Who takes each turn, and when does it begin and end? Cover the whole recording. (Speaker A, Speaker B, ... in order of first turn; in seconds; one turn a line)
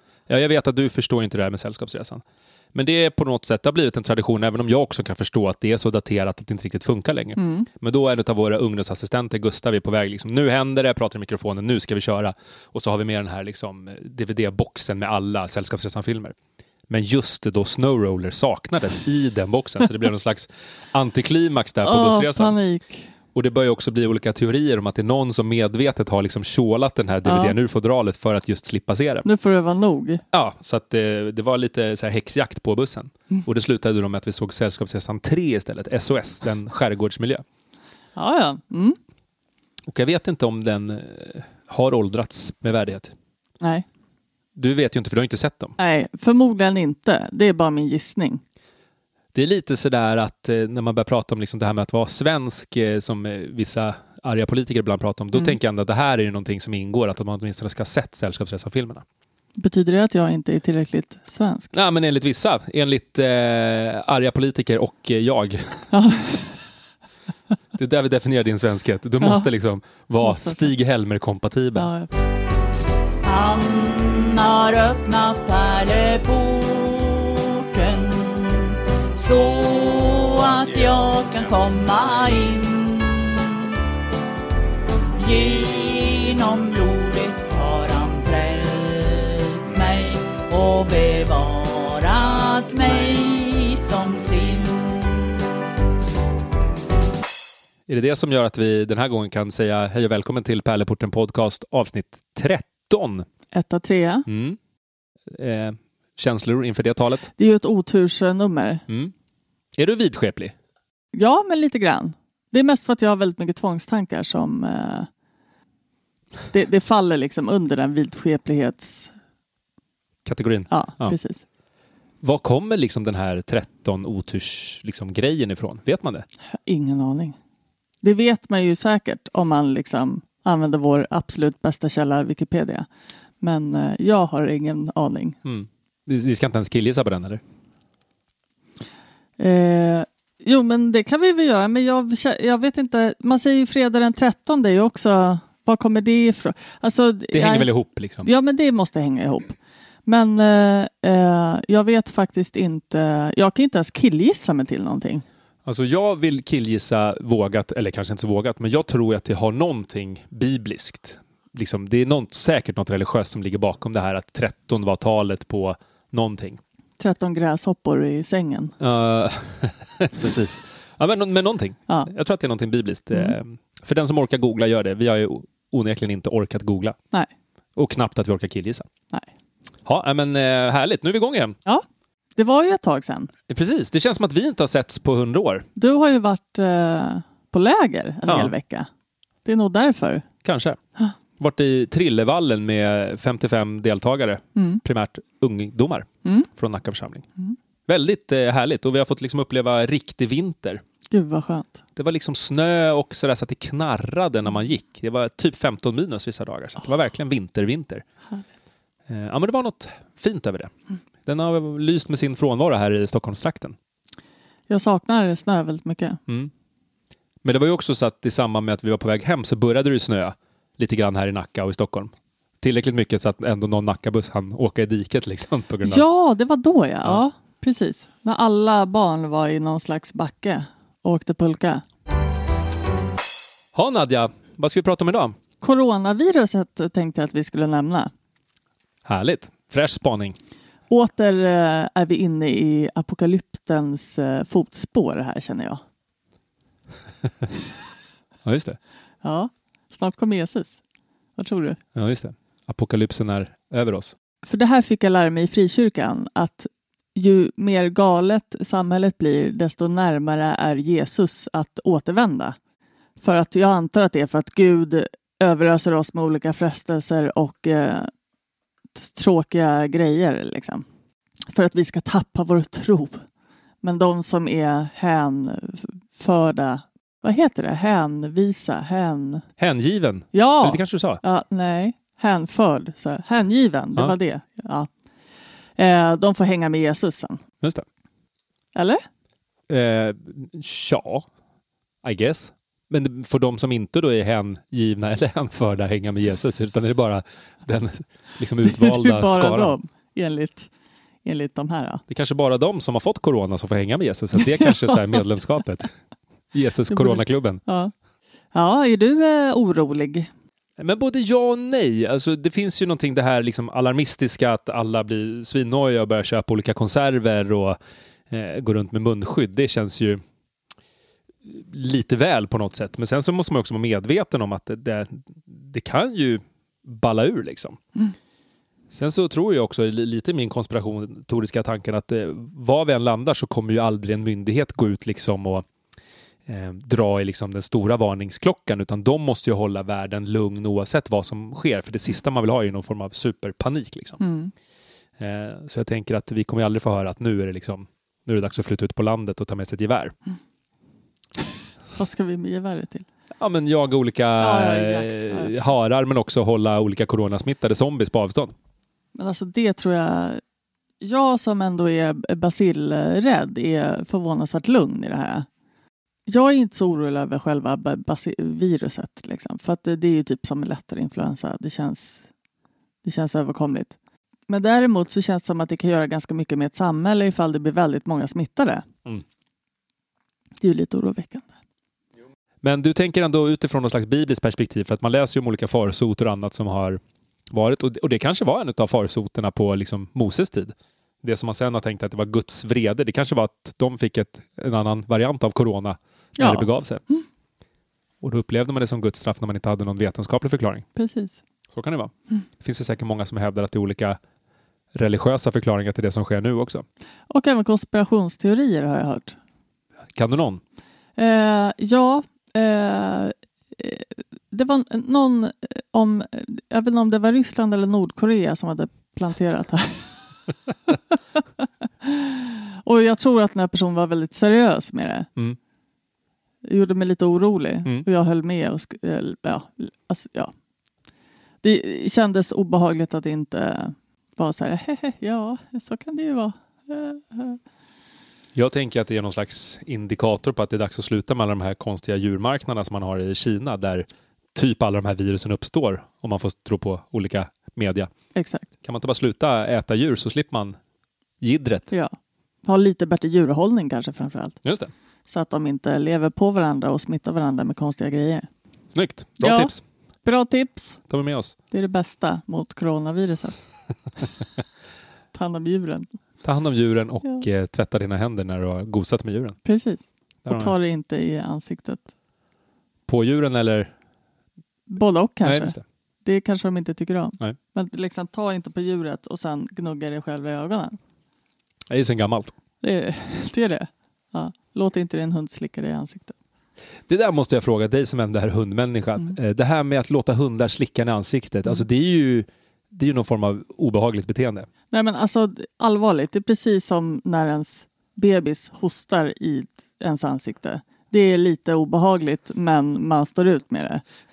Speaker A: 0.3-2.2
Speaker A: 2.7-16.3
Speaker B: 7.4-7.7
Speaker A: 16.9-22.5
Speaker B: 21.8-23.1
Speaker A: 23.3-29.3
Speaker B: 27.2-27.5
Speaker B: 29.2-30.2
Speaker A: 30.3-37.4
Speaker B: 38.1-39.0
Speaker A: 39.9-43.1
Speaker B: 43.6-43.9
Speaker A: 44.5-45.7
Speaker B: 45.8-48.4
Speaker A: 49.3-59.0
Speaker B: 59.6-61.7
Speaker A: 61.7-65.9
Speaker B: 65.9-66.5
Speaker A: 67.7-71.9
Speaker B: 69.2-69.5
Speaker B: 70.2-70.7
Speaker B: 71.7-72.1
Speaker C: 73.2-83.8
Speaker C: 85.2-95.5
Speaker A: 97.9-103.2
Speaker B: 103.5-104.2
Speaker A: 104.2-104.6
Speaker A: 105.3-107.3
Speaker B: 107.4-108.8
Speaker A: 109.8-110.5
Speaker B: 111.1-115.1
Speaker B: 116.5-119.1
Speaker A: 120.2-121.2
Speaker B: 120.7-121.4
Speaker A: 122.2-126.2
Speaker B: 126.6-127.3
Speaker B: 128.0-132.9
Speaker B: 133.4-135.4
Speaker A: 135.4-137.4
Speaker B: 139.4-147.7
Speaker A: 147.3-148.3
Speaker B: 148.2-155.2
Speaker A: 155.6-166.6
Speaker B: 167.0-168.8
Speaker A: 168.8-176.9
Speaker A: 177.8-178.9
Speaker A: 179.8-181.6
Speaker B: 181.7-183.3
Speaker A: 183.5-185.7
Speaker B: 185.8-188.9
Speaker A: 188.3-188.5
Speaker B: 189.4-190.2
Speaker A: 190.4-190.8
Speaker A: 191.4-197.2
Speaker B: 194.6-194.8
Speaker A: 197.9-200.8
Speaker B: 201.1-201.8
Speaker A: 201.9-208.0
Speaker A: 209.1-213.8
Speaker B: 214.7-216.2
Speaker A: 217.4-226.0
Speaker B: 225.8-231.8
Speaker A: 233.7-235.3
Speaker B: 235.6-238.1
Speaker A: 239.1-240.3
Speaker B: 240.9-245.8
Speaker A: 248.4-248.8
Speaker B: 249.2-250.8
Speaker B: 251.4-251.8
Speaker A: 251.9-254.1
Speaker B: 254.4-262.6
Speaker B: 263.2-268.1
Speaker B: 268.9-270.8
Speaker B: 271.5-273.2
Speaker B: 273.8-279.4
Speaker A: 279.6-281.2
Speaker B: 280.3-284.9
Speaker B: 285.8-287.4
Speaker B: 288.7-289.0
Speaker A: 289.7-291.2
Speaker A: 292.0-299.7
Speaker B: 298.6-300.7
Speaker B: 301.2-302.0
Speaker A: 302.1-305.9
Speaker B: 304.5-304.9
Speaker A: 306.5-307.6
Speaker B: 306.9-307.9
Speaker B: 308.5-310.3
Speaker A: 310.8-317.8
Speaker A: 318.3-320.2
Speaker A: 321.4-327.8
Speaker A: 328.9-335.6
Speaker A: 336.5-344.2
Speaker B: 344.2-344.5
Speaker A: 345.2-350.1
Speaker B: 351.9-353.1
Speaker A: 353.4-358.5
Speaker B: 354.4-355.6
Speaker B: 359.1-360.4
Speaker B: 361.0-365.5
Speaker B: 366.3-372.3
Speaker B: 373.0-373.9
Speaker B: 374.5-378.8
Speaker B: 380.6-381.5
Speaker A: 382.6-387.0
Speaker A: 387.5-397.0
Speaker B: 396.4-397.2
Speaker A: 398.2-400.8
Speaker B: 400.9-401.4
Speaker A: 401.7-404.2
Speaker A: 404.9-406.8
Speaker B: 407.3-409.4
Speaker A: 410.1-410.6
Speaker B: 411.2-420.1
Speaker B: 420.9-425.3
Speaker B: 426.6-430.5
Speaker B: 431.6-437.6
Speaker A: 438.6-448.1
Speaker B: 448.3-448.7
Speaker A: 448.8-450.8
Speaker A: 451.4-451.9
Speaker B: 451.9-454.6
Speaker A: 454.6-454.9
Speaker B: 455.3-458.5
Speaker A: 458.9-459.8
Speaker B: 459.4-459.7
Speaker B: 460.2-461.0
Speaker A: 461.1-461.6
Speaker B: 461.7-463.6
Speaker B: 465.3-466.1
Speaker A: 466.4-469.6
Speaker B: 469.6-472.1
Speaker A: 470.4-470.7
Speaker A: 473.1-473.9
Speaker B: 474.9-481.0
Speaker A: 475.4-475.8
Speaker A: 481.9-482.5
Speaker B: 482.8-486.4
Speaker A: 487.1-494.7
Speaker B: 494.9-504.0